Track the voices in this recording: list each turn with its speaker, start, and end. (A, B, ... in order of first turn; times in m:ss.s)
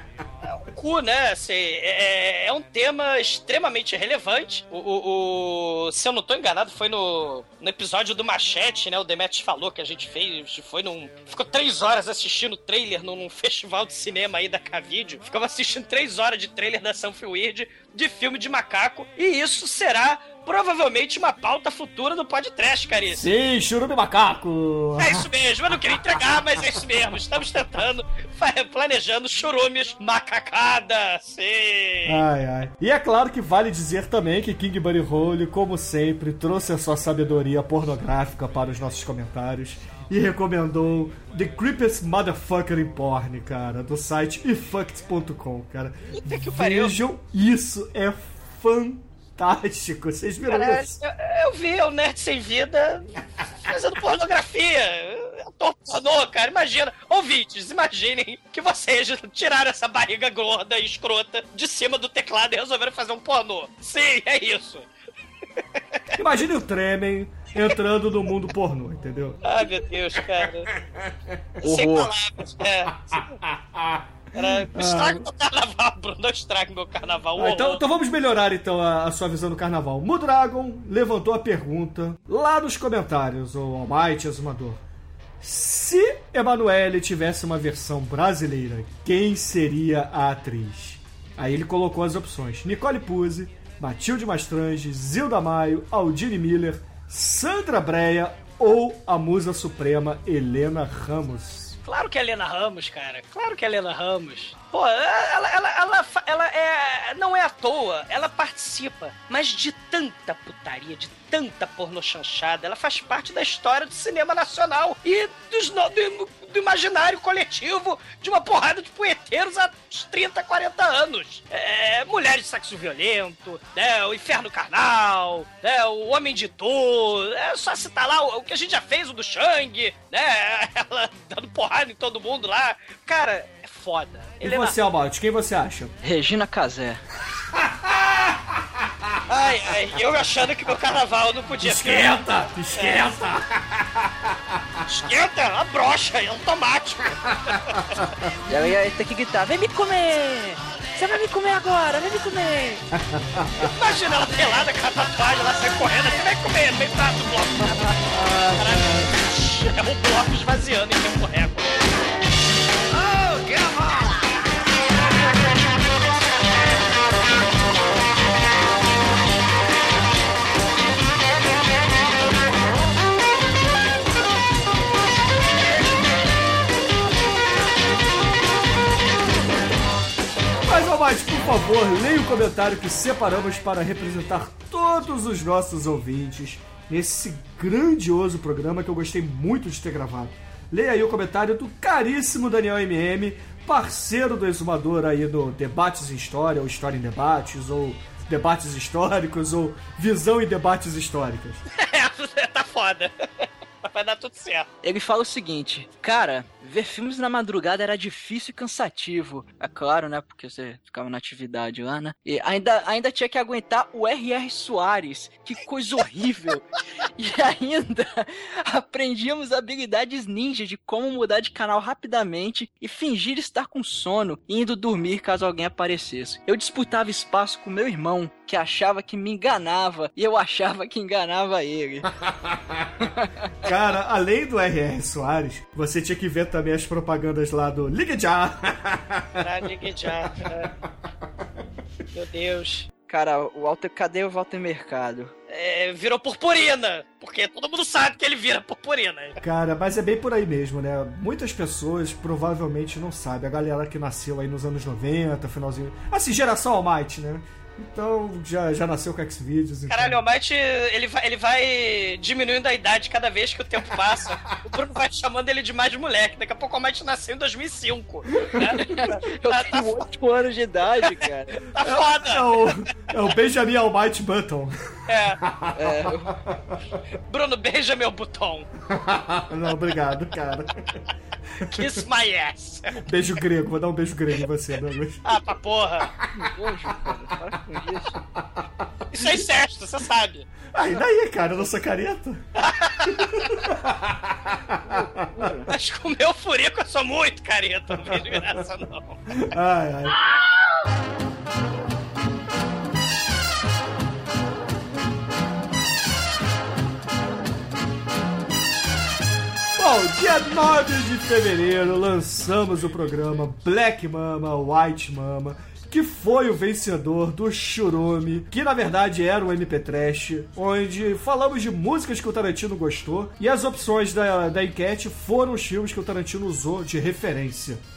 0:00.4-0:23.2 A
0:23.1-0:25.2 B
0:25.0-0:32.2 A
0:32.0-0:50.9 B
0:46.1-0:47.0 A
0:50.5-1:04.9 A
1:06.1-1:09.4 B
1:09.4-1:10.7 A
1:10.8-1:12.0 B
1:11.6-1:13.4 A
1:11.6-1:12.0 C
1:13.1-1:15.3 B
1:14.3-1:17.8 A
1:17.4-1:24.8 B
1:25.4-1:41.8 B
1:41.8-2:14.8 A
2:14.4-2:15.9 B
2:16.0-2:17.0 C
2:17.5-2:18.4 B
2:19.3-2:22.2 A
2:21.6-2:24.8 B
2:22.7-2:23.0 A
2:24.8-2:28.0 A
2:28.5-2:32.8 C
2:33.0-2:33.7 B
2:33.6-2:38.0 A
2:38.1-2:39.1 B
2:38.5-2:41.7 A
2:42.9-2:44.3 A
3:00.6-3:21.6 B
3:21.7-3:24.7 A
3:24.8-3:52.1 C
3:53.0-3:53.3 C
3:53.6-3:59.4 B
3:59.4-4:00.7 A
4:02.1-4:02.9 A
4:03.1-4:05.3 C
4:05.5-4:09.4 A
4:09.4-4:20.2 B
4:19.9-4:29.9 A
4:28.6-4:31.6 C
4:31.6-4:32.8 A
4:31.8-4:34.8 B
4:35.1-4:35.4 A
4:35.4-4:36.7 B
4:35.7-4:36.3 C
4:37.3-4:38.7 A
4:38.9-4:41.0 B
4:41.6-4:41.9 B
4:41.7-4:43.1 A
4:43.0-4:45.3 B
4:45.2-4:46.1 A
4:46.3-4:48.2 C
4:48.4-4:48.8 B
4:49.1-4:50.5 A
4:50.7-4:52.4 B
4:52.6-4:53.5 A
4:53.6-4:55.1 B
4:55.2-4:55.7 C
4:55.7-4:59.2 A
4:58.1-4:58.4 B
4:59.3-5:00.1 B
5:09.8-5:27.8 B